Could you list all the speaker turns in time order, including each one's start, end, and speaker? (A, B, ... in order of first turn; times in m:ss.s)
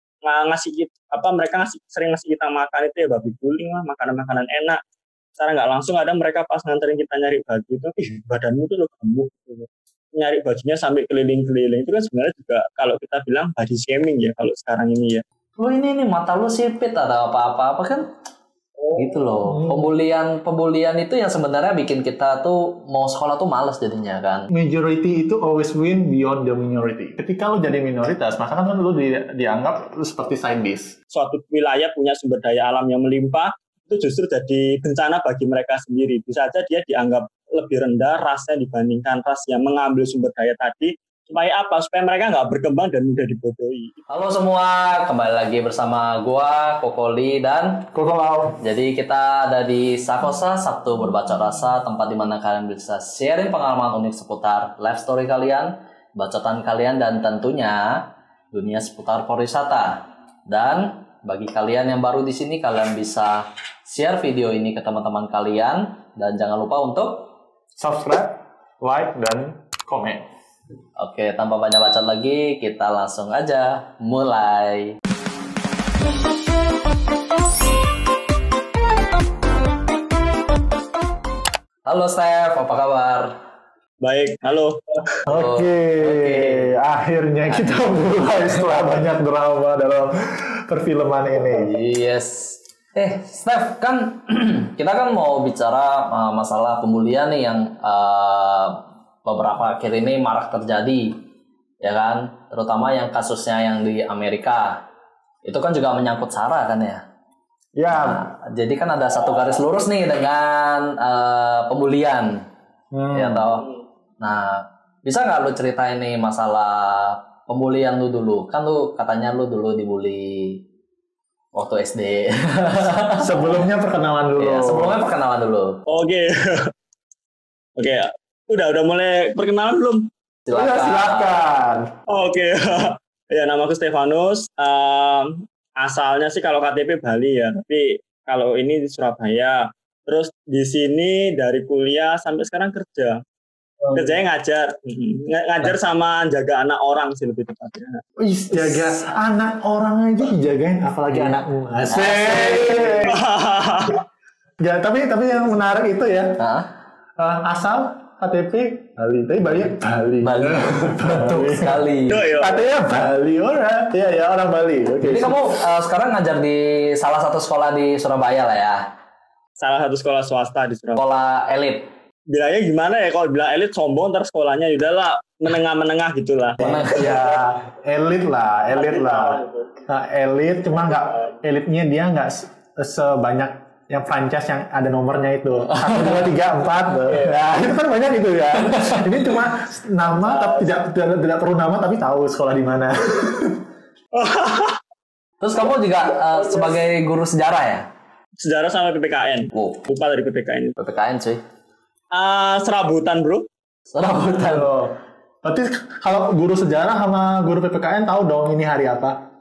0:00.2-0:04.8 A
0:05.4-0:15.2 A
0:15.6-0:18.0 B
0:18.8-0:19.2 A
0:18.9-0:24.5 B
0:19.4-0:19.9 C
0:24.5-0:30.9 C
0:31.1-0:43.9 A
0:44.1-0:47.9 B
0:47.9-0:48.6 C
0:48.6-0:58.0 B
0:58.5-1:07.3 B
1:07.8-1:10.3 C
1:11.0-1:15.0 B
1:21.8-1:23.3 B
1:24.0-1:24.9 A
1:25.3-1:31.8 C
1:25.3-1:26.7 B
1:27.5-1:29.0 B
1:31.5-1:41.1 B
1:41.8-1:44.8 B
1:45.4-1:47.0 B
1:47.8-1:48.2 C
1:47.9-1:52.4 B
1:52.9-1:53.4 C
1:53.1-1:53.6 B
1:54.2-2:00.6 B
2:01.5-2:03.6 B
2:03.2-2:05.0 C
2:04.4-2:05.8 B
2:05.9-2:06.7 A
2:07.8-2:10.1 A
2:10.5-2:11.4 B
2:10.5-2:11.9 C
2:12.1-2:23.2 A
2:23.8-2:24.1 C
2:23.9-2:28.0 A
2:28.2-2:33.2 C
2:31.1-2:33.1 B
2:33.0-2:34.0 A
2:34.6-2:36.4 C
2:36.4-2:36.7 B
2:37.2-2:45.5 C
2:40.2-2:42.2 B
2:41.2-2:42.6 A
2:45.0-2:48.8 B
2:49.6-2:51.0 A
2:51.0-2:51.9 B
2:52.3-2:57.1 A
2:56.6-2:57.1 B
2:56.7-3:13.6 C
2:58.7-2:59.7 A
3:00.7-3:01.4 A
3:05.7-3:06.3 B
3:07.1-3:07.3 A
3:08.7-3:09.1 B
3:10.2-3:10.7 A
3:14.1-3:14.8 A
3:15.4-3:17.8 B
3:16.3-3:16.8 A
3:18.4-3:20.7 A
3:19.5-3:19.8 B
3:20.8-3:21.4 B
3:22.1-3:23.4 A
3:23.9-3:24.7 B
3:24.4-3:29.2 C